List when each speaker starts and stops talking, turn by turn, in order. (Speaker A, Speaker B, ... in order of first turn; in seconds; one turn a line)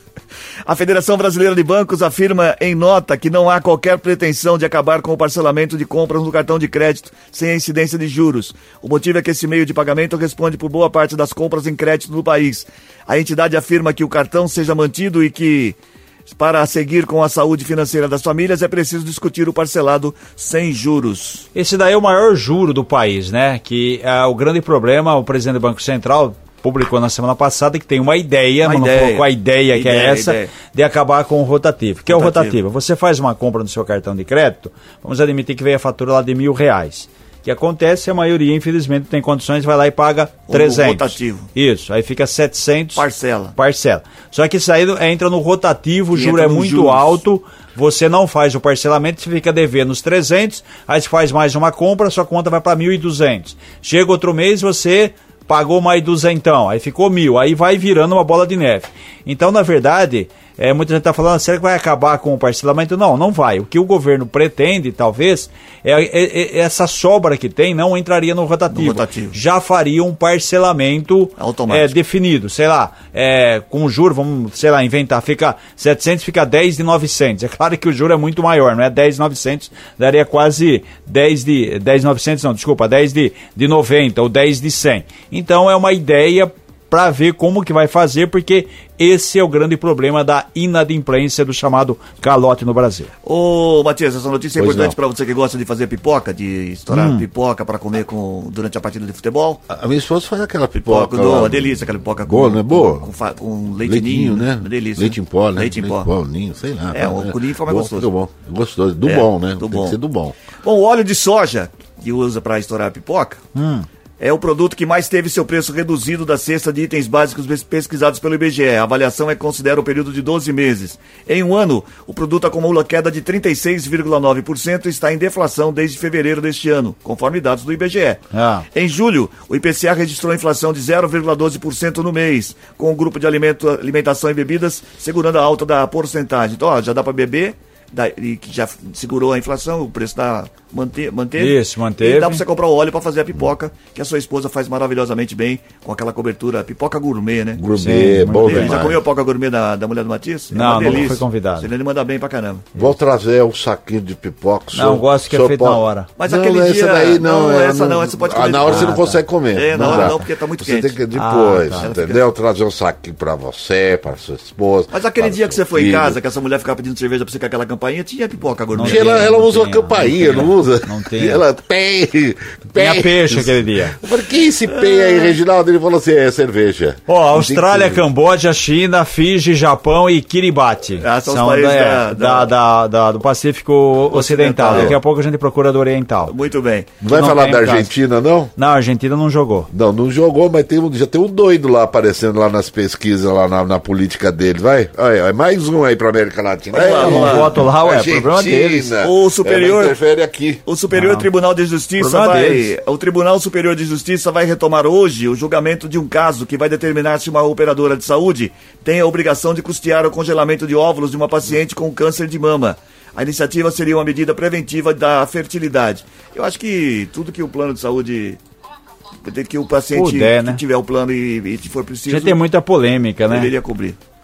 Speaker A: 0.7-21.5
Speaker B: 21.5-43.0
Speaker A: 28.6-30.5
Speaker A: 32.1-32.6
Speaker A: 40.5-41.5
Speaker A: 43.0-43.5
Speaker B: 43.5-93.1
Speaker A: 46.1-47.2
Speaker A: 68.7-69.3
Speaker A: 71.4-71.9
Speaker A: 93.2-99.6
Speaker C: 94.6-95.0
Speaker B: 96.9-97.2
Speaker C: 99.7-103.1
Speaker A: 100.8-106.1
Speaker C: 103.8-110.3
Speaker A: 106.9-108.1
Speaker A: 109.0-110.0
Speaker A: 110.6-113.4
Speaker B: 113.5-113.8
Speaker A: 114.2-128.2
Speaker B: 128.3-128.6
Speaker A: 128.7-147.6
Speaker B: 141.4-142.4
Speaker C: 147.6-149.0
Speaker B: 147.8-148.8
Speaker A: 148.4-152.7
Speaker B: 150.5-151.7
Speaker C: 150.8-151.2
Speaker C: 152.7-166.2
Speaker B: 154.7-156.1
Speaker A: 156.2-161.0
Speaker B: 158.6-159.2
Speaker B: 159.7-160.2
Speaker B: 161.1-161.9
Speaker A: 161.8-162.2
Speaker A: 164.9-169.3
Speaker B: 168.7-171.4
Speaker C: 168.8-178.0
Speaker B: 172.7-173.9
Speaker A: 174.7-175.4
Speaker B: 177.1-186.3
Speaker A: 181.0-182.5
Speaker A: 184.1-185.0
Speaker C: 184.7-185.0
Speaker A: 186.2-187.0
Speaker C: 187.0-188.5
Speaker B: 187.1-187.9
Speaker B: 188.6-189.7
Speaker C: 189.7-200.6
Speaker A: 196.7-197.5
Speaker B: 196.9-198.9
Speaker A: 199.0-199.9
Speaker A: 200.7-218.4
Speaker B: 200.9-201.3
Speaker B: 202.0-202.7
Speaker A: 219.2-222.4
Speaker B: 219.9-220.6
Speaker B: 222.1-223.5
Speaker A: 223.3-224.0